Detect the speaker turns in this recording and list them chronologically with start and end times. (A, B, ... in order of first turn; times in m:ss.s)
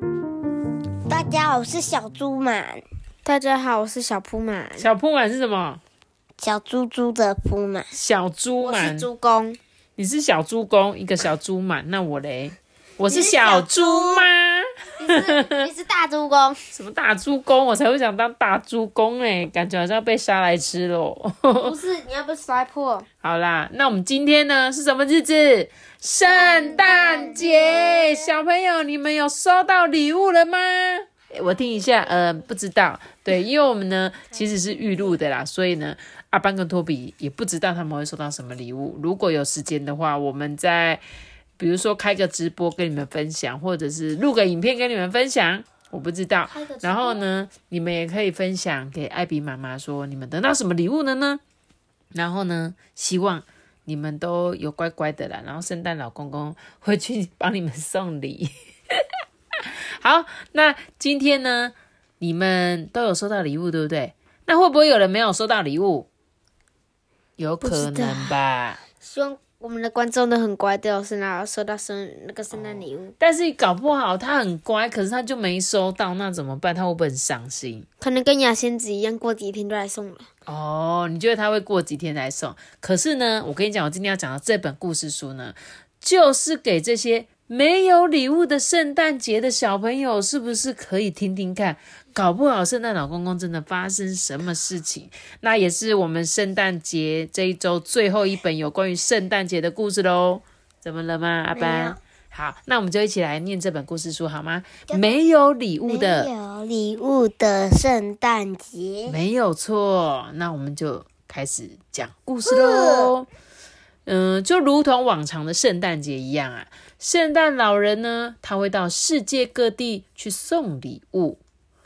0:01.1-0:02.8 A
0:03.2-0:04.9 B
0:04.8-0:05.8 C
0:06.4-0:07.9 A
0:07.9-0:09.1 C
0:08.6-0:09.6 B
0:10.0-0:15.7 C
0:13.1-0:14.2 B
0:15.0-0:16.6 B
0:16.7-0:21.7 C
0:21.6-0:23.1 B
0:23.2-0:41.0 C
0:41.6-0:51.4 C
0:46.5-0:47.1 A
0:52.1-1:06.1 C
1:07.4-1:08.8 C
1:07.6-1:08.4 B
1:09.0-1:13.1 B
1:12.5-1:17.9 C
1:18.0-1:20.3 B
1:20.5-1:46.3 C
1:41.6-1:42.0 A
1:45.8-1:49.2 A
1:49.0-1:53.3 C
1:52.5-1:53.1 A
1:54.1-2:01.4 C